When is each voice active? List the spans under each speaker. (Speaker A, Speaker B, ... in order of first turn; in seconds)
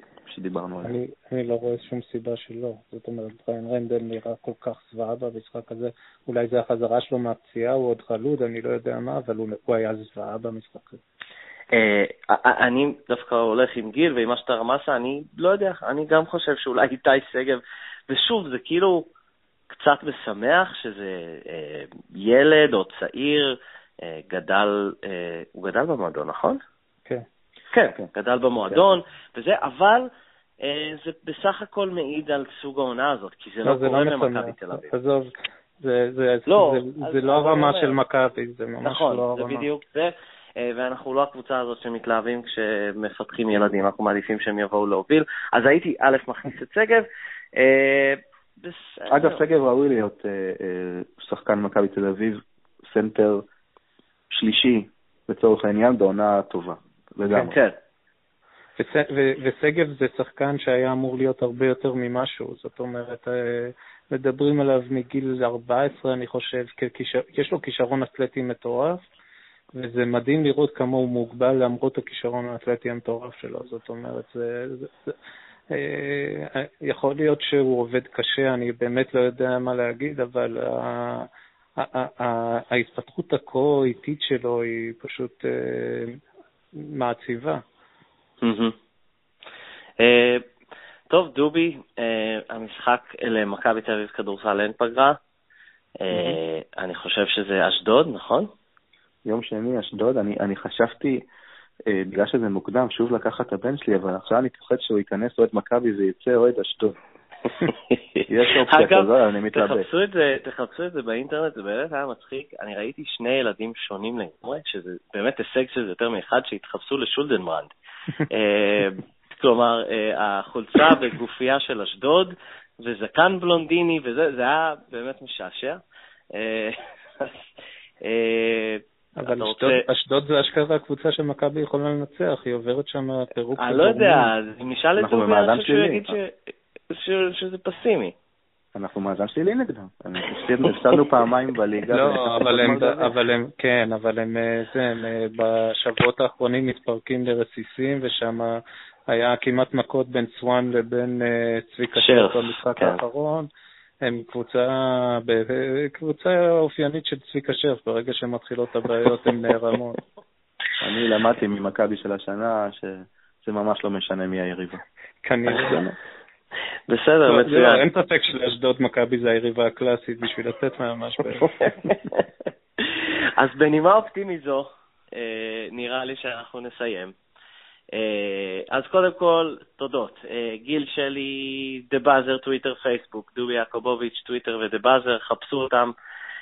Speaker A: 0.3-1.0, 49.1-53.4, 54.3-57.6, 99.3-101.2, 101.9-107.0, 108.3-109.9, 135.0-136.2, 138.8-143.1, 160.8-164.8, 165.5-166.0
Speaker B: 0.8-11.0, 33.6-39.7, 58.8-69.0, 69.8-75.1, 75.7-86.2, 86.8-87.6, 129.2-134.3, 141.9-153.5, 154.0-160.0, 165.2-165.8, 167.3-171.7
Speaker C: 11.7-19.1, 19.7-26.6, 27.7-30.1, 30.6-34.9, 36.5-38.0, 38.8-49.4, 57.3-57.8, 88.4-88.8, 90.0-90.5, 91.1-95.2, 96.0-98.5, 107.6-117.7, 118.3-125.8, 126.3-127.4, 128.0-129.8, 133.6-136.3, 136.9-138.1, 140.6-141.1, 152.0-153.0, 166.9-167.8, 171.5-172.3, 172.8-177.1, 177.9-185.9